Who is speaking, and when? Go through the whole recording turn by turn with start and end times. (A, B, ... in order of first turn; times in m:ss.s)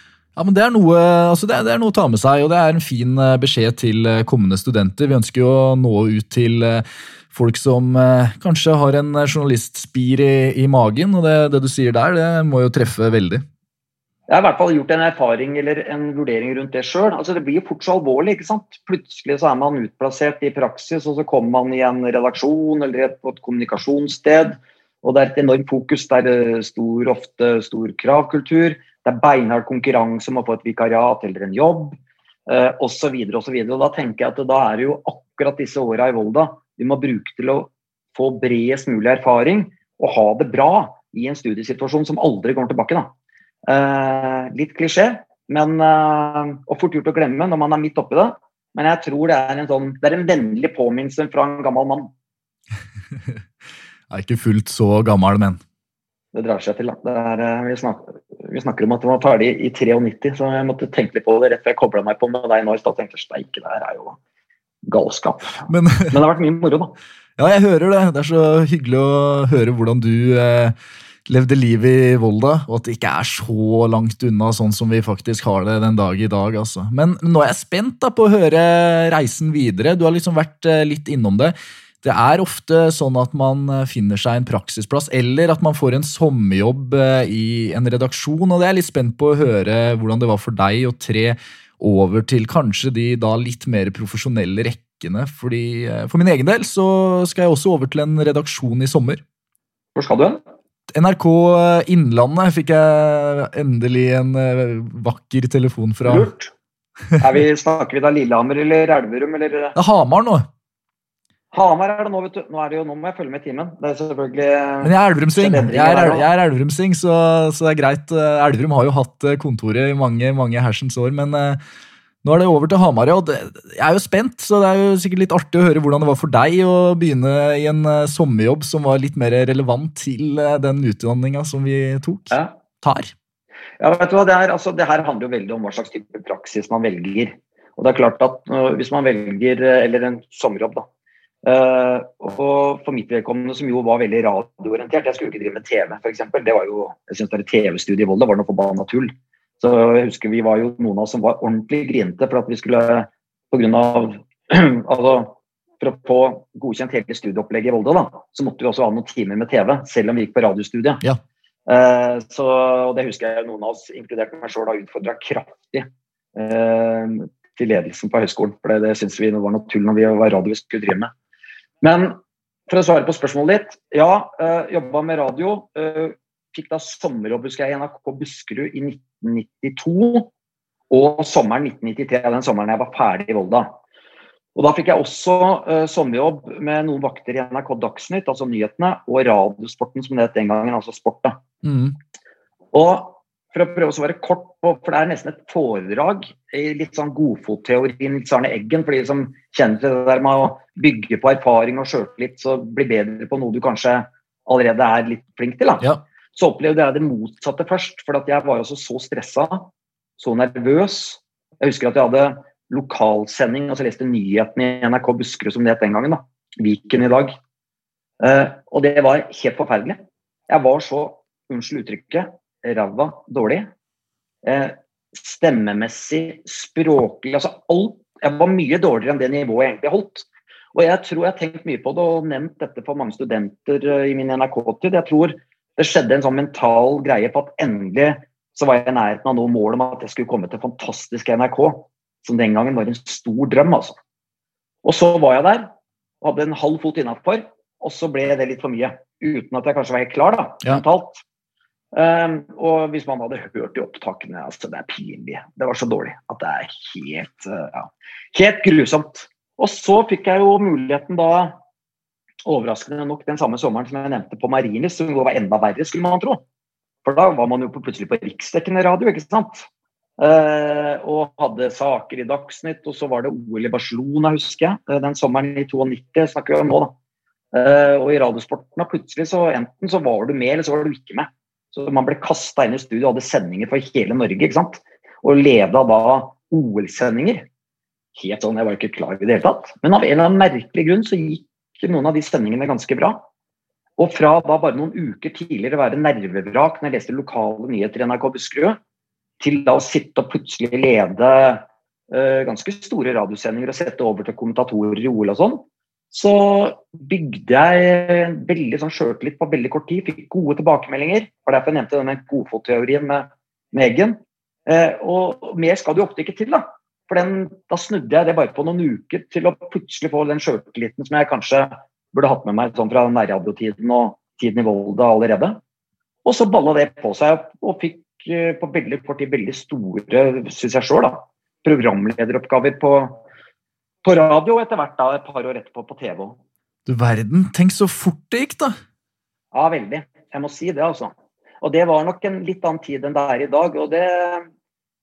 0:00.4-0:13.4 A
0:14.3-0:43.1 B
0:43.7-0:52.1 B
0:54.1-0:55.6 A
0:56.3-1:04.2 B
1:04.8-1:06.9 B
1:05.7-1:06.2 A
1:07.4-1:10.7 A
1:11.3-1:39.2 A
1:39.9-1:40.4 B
1:40.9-1:46.3 A
1:46.0-1:46.5 B
1:47.2-1:49.7 B
1:49.8-1:50.5 A
1:51.5-1:56.2 B
1:54.8-2:01.6 A
2:02.2-2:13.1 A
2:13.8-2:20.8 B
2:21.4-2:41.0 B
2:41.7-2:51.1 B
2:51.8-2:52.2 B
2:52.7-3:00.3 B
3:00.9-3:03.8 B
3:04.5-3:11.4 B
3:11.6-3:12.0 A
3:12.7-3:37.3 B
3:38.2-3:40.0 B
3:40.5-3:43.7 B
3:44.4-4:04.0 B
4:04.8-4:05.7 B
4:06.2-4:11.2 B
4:11.9-4:21.6 B
4:22.4-4:26.4 B
4:27.0-4:36.9 B
4:37.5-4:47.4 B
4:48.1-4:53.2 B
4:54.0-4:58.8 B
4:59.4-5:25.6 B
5:26.2-5:33.2 B
5:34.0-5:36.4 B
5:36.8-5:38.8 A
5:39.5-5:44.4 B